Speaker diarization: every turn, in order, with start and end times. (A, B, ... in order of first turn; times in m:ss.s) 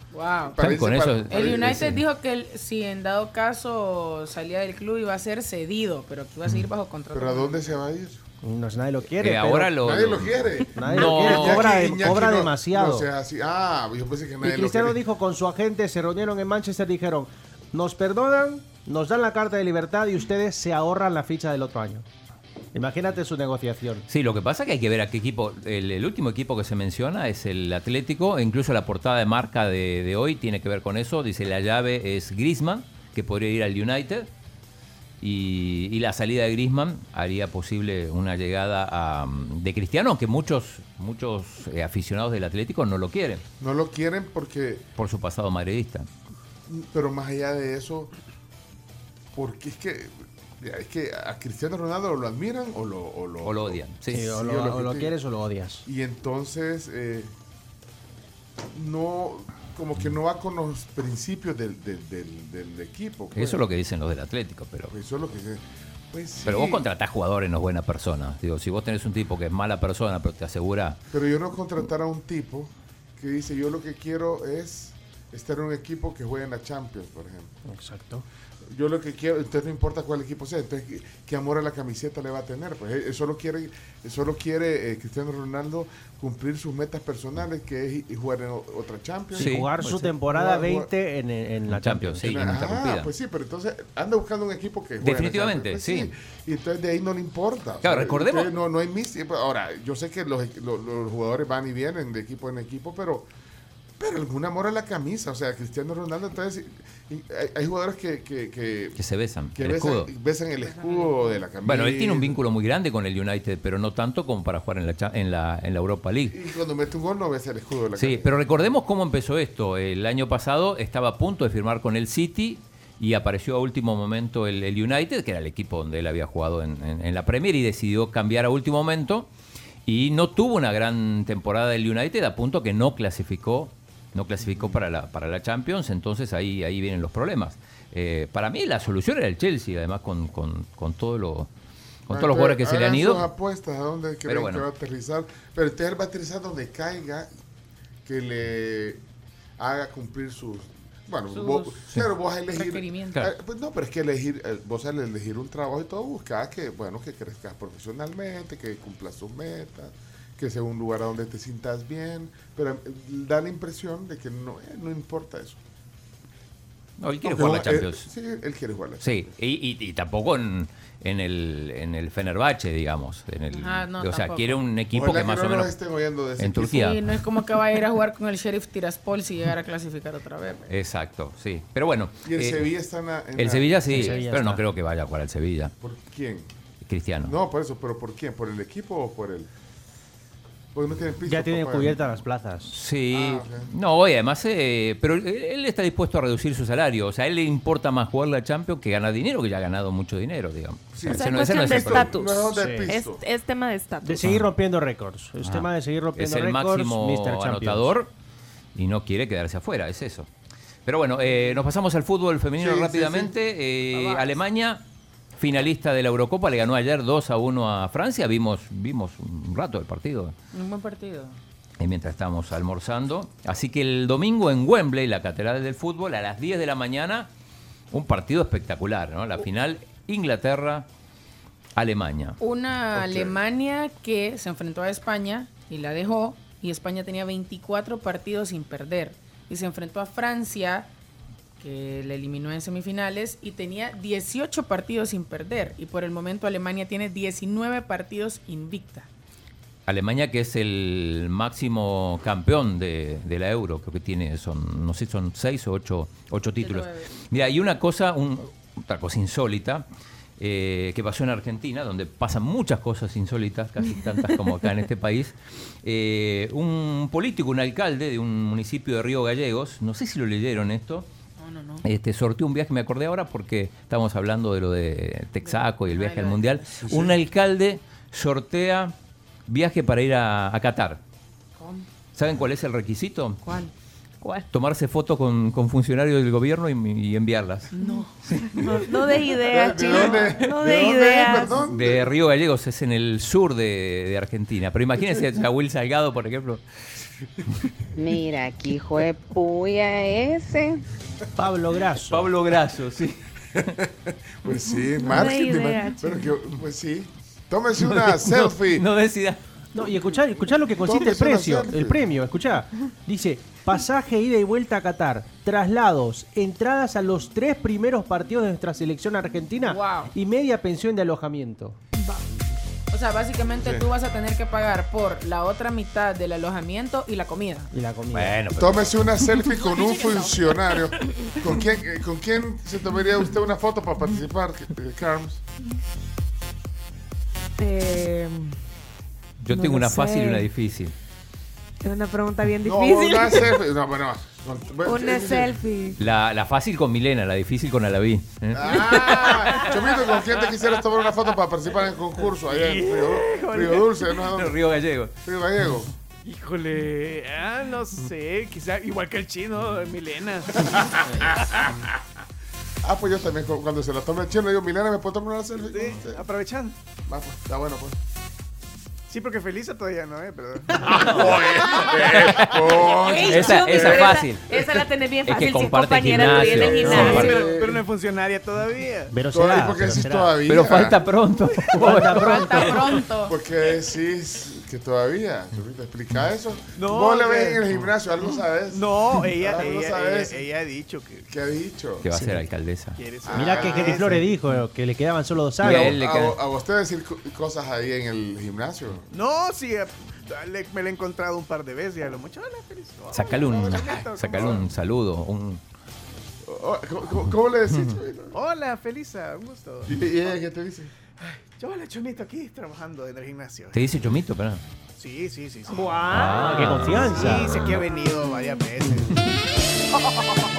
0:00.1-0:00.6 A
0:00.6-0:02.0 B
0:00.6-0:02.0 C
0:01.3-0:07.6 A
0:07.1-0:08.2 C
0:08.4-0:09.7 D
0:09.2-0:11.7 B
0:09.8-0:15.0 C
0:10.7-0:13.1 D
0:14.4-0:22.0 D
0:22.7-0:24.1 D
0:24.1-0:34.3 B
0:35.2-0:43.4 B
0:43.6-0:44.9 C
0:45.0-0:46.1 B
0:46.7-0:48.1 C
0:49.3-0:55.2 C
0:53.4-0:54.3 B
0:54.1-0:55.8 D
0:55.9-0:57.3 C
0:58.7-1:03.6 C
1:03.4-1:04.9 B
1:04.9-1:06.8 C
1:06.4-1:11.0 B
1:11.1-1:17.5 C
1:17.7-1:18.2 D
1:18.7-1:30.9 C
1:29.3-1:32.2 D
1:29.4-1:29.8 B
1:31.7-1:33.1 B
1:32.2-1:43.3 C
1:35.0-1:36.1 B
1:37.8-1:38.5 B
1:44.0-1:49.0 C
1:49.0-1:50.1 B
1:49.5-1:52.4 C
1:50.7-1:51.1 A
1:51.6-1:56.4 B
1:56.3-1:58.3 C
1:58.0-2:09.3 B
2:09.9-2:21.5 B
2:22.1-2:23.3 B
2:22.1-2:27.3 C
2:24.3-2:24.7 B
2:28.0-2:29.0 C
2:29.6-2:45.6 C
2:31.3-2:31.8 A
2:32.5-2:33.2 A
2:47.0-2:48.1 B
2:47.2-2:49.3 C
2:49.0-2:55.8 B
2:53.5-2:54.6 A
2:54.9-2:56.9 C
2:56.4-2:57.0 B
2:56.8-3:00.7 A
3:00.7-3:02.7 B
3:02.2-3:04.2 C
3:03.4-3:05.7 B
3:03.9-3:04.6 D
3:05.8-3:06.5 C
3:06.8-3:07.4 B
3:07.2-3:09.5 C
3:10.7-3:12.1 C
3:11.3-3:12.7 D
3:12.7-3:22.2 B
3:13.1-3:13.7 C
3:20.9-3:23.2 C
3:21.1-3:24.3 E
3:22.5-3:22.9 D
3:24.0-3:27.9 D
3:24.2-3:24.5 B
3:25.4-3:28.1 B
3:28.8-3:30.3 B
3:30.9-3:34.8 B
3:32.6-3:33.3 C
3:33.9-3:34.3 A
3:35.4-3:40.3 B
3:40.5-3:41.4 A
3:41.8-3:47.3 B
3:47.9-3:50.9 B
3:51.8-3:52.4 B
3:52.4-4:00.9 A
3:52.9-3:53.4 C
4:01.6-4:09.1 A
4:09.9-4:19.8 B
4:16.6-4:17.4 A
4:20.4-4:31.1 B
4:31.4-4:31.9 A
4:31.8-4:38.9 B
4:35.4-4:36.8 A
4:36.8-4:37.2 C
4:39.5-4:41.0 B
4:41.6-4:41.9 A
4:42.2-4:43.4 B
4:44.5-4:47.7 B
4:47.8-4:48.1 A
4:47.8-4:51.6 E
4:48.2-4:49.2 B
4:49.5-4:52.0 C
4:49.9-4:50.8 B
4:51.5-4:56.6 B
4:58.0-5:00.8 F
5:01.4-5:02.3 D
5:02.1-5:03.7 B
5:04.1-5:08.9 C
5:05.0-5:06.3 E
5:07.8-5:09.4 B
5:09.7-5:21.8 D
5:10.8-5:12.1 C
5:19.7-5:20.1 A
5:22.9-5:27.7 A
5:23.6-5:23.9 C
5:27.7-5:28.4 D
5:28.1-5:29.1 B
5:28.6-5:35.4 C
5:37.6-5:38.5 E
5:39.4-5:40.9 B
5:39.5-5:40.5 E
5:41.8-5:43.5 E
5:42.6-5:45.6 C
5:44.8-5:46.0 E
5:46.0-5:50.0 B
5:48.5-5:54.6 C
5:52.3-5:54.0 G
5:54.2-5:55.2 B
5:55.2-5:55.9 C
5:56.2-6:00.7 G
6:00.6-6:01.9 C
6:02.8-6:06.2 C
6:05.6-6:06.8 G
6:07.1-6:08.0 C
6:09.1-6:11.6 G
6:10.8-6:14.3 C
6:10.9-6:17.5 B
6:12.9-6:17.6 E
6:16.1-6:17.8 C
6:17.1-6:19.1 G
6:19.1-6:20.4 D
6:19.3-6:21.0 C
6:20.5-6:23.0 B
6:21.7-6:23.0 D
6:22.2-6:23.4 A
6:23.3-6:30.5 C
6:26.8-6:27.6 G
6:28.7-6:31.2 G
6:31.3-6:32.1 C
6:32.0-6:33.0 B
6:32.1-6:32.5 D
6:33.0-6:34.2 G
6:33.2-6:34.2 C
6:33.3-6:36.0 D
6:35.6-6:36.4 B
6:35.6-6:39.1 C
6:39.1-6:44.5 G
6:43.1-6:45.6 B
6:43.4-6:44.7 C
6:46.4-6:48.4 C
6:47.7-6:48.0 B
6:48.3-6:50.0 G
6:49.9-6:50.9 C
6:51.2-6:53.9 G
6:53.7-6:54.6 B
6:55.0-6:56.4 G
6:55.7-6:57.7 D
6:56.1-6:57.6 B
6:57.0-6:59.2 G